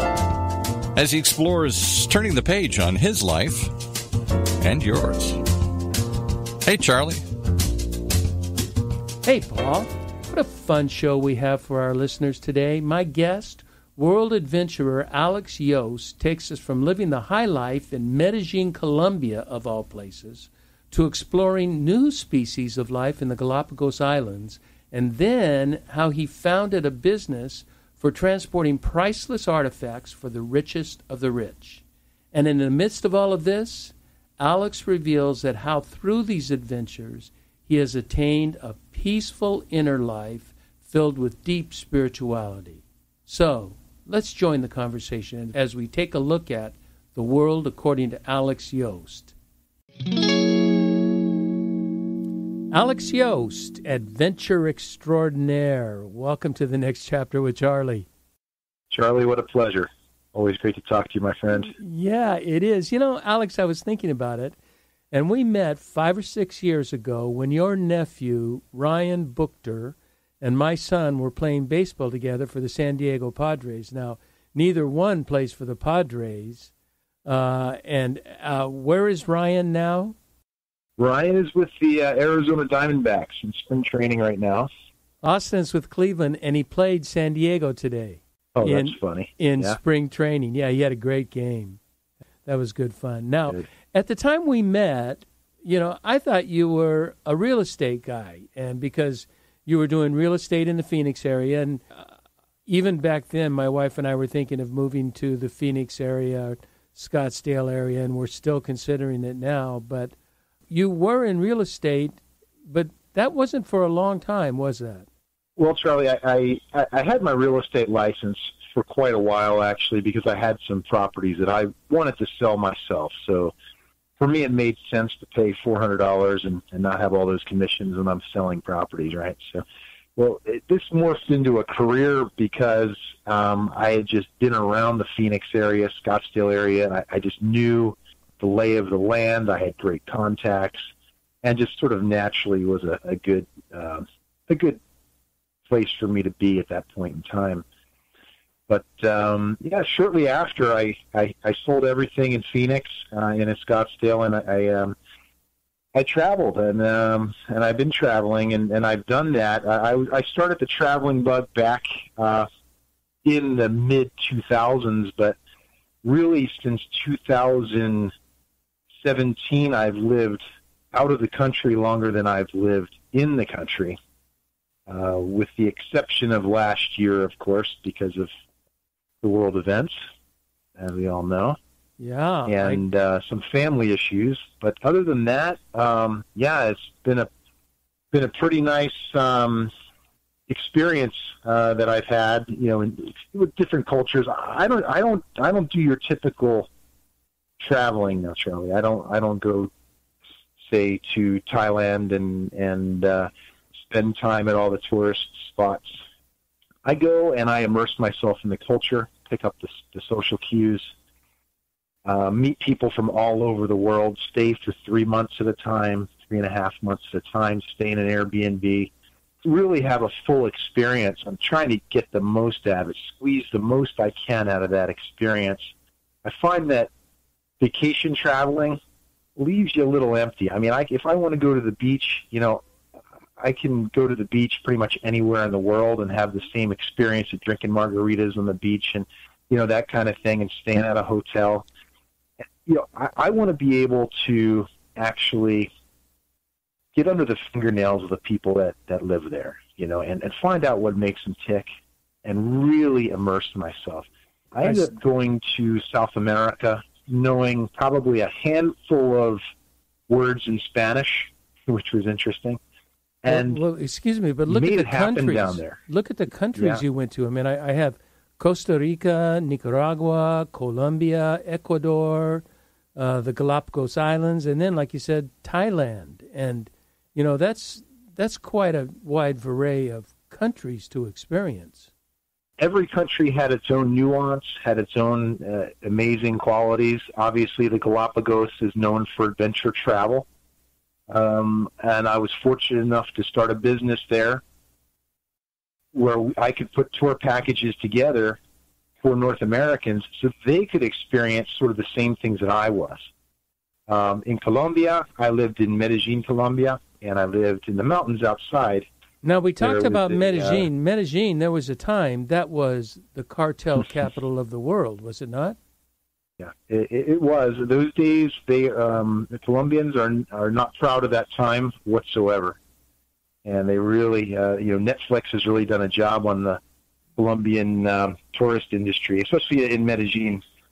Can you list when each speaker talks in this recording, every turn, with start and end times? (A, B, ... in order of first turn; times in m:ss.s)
0:00.9-0:03.7 A
0:04.6-0:05.4 A
0:06.6-0:07.2 A
0:09.2-0:49.3 B
0:52.7-0:58.1 B
0:58.9-1:01.7 C
1:01.6-1:04.6 B
1:05.1-1:16.7 B
1:17.2-1:20.2 B
1:21.0-1:24.7 C
1:25.2-1:31.8 B
1:28.5-1:29.8 C
1:32.4-1:42.1 B
1:42.7-1:50.1 B
1:50.7-1:55.1 B
1:55.6-2:03.5 C
2:04.2-2:09.6 C
2:10.2-2:20.9 C
2:21.4-2:24.8 C
2:25.6-2:27.6 C
2:28.7-2:35.0 C
2:35.9-2:42.5 C
2:43.2-2:45.4 C
2:46.0-2:48.1 C
2:48.9-2:50.4 C
2:50.9-2:54.0 C
2:54.9-2:58.3 C
2:59.2-2:59.9 C
3:00.8-3:01.6 C
3:02.0-3:02.8 B
3:02.5-3:07.3 C
3:08.1-3:09.7 C
3:10.5-3:16.7 C
3:17.6-3:19.7 C
3:20.6-3:26.0 C
3:26.8-3:30.9 C
3:32.0-3:38.9 C
3:39.4-3:45.7 C
3:46.2-3:46.9 C
3:47.6-3:48.8 C
3:49.4-3:52.6 C
3:53.4-4:01.6 C
4:02.6-4:05.7 C
4:06.9-4:11.7 C
4:12.2-4:19.4 C
4:14.6-4:14.9 B
4:20.1-4:22.6 C
4:23.2-4:23.6 C
4:23.3-4:32.4 B
4:24.5-4:25.8 C
4:26.5-4:26.8 C
4:32.9-4:41.9 B
4:42.6-4:50.3 C
4:51.1-4:54.4 C
4:55.9-4:58.4 C
4:59.0-5:03.0 C
5:03.9-5:08.9 C
5:09.2-5:15.6 B
5:09.6-5:10.7 C
5:16.4-5:22.6 C
5:23.4-5:26.6 C
5:27.2-5:30.4 C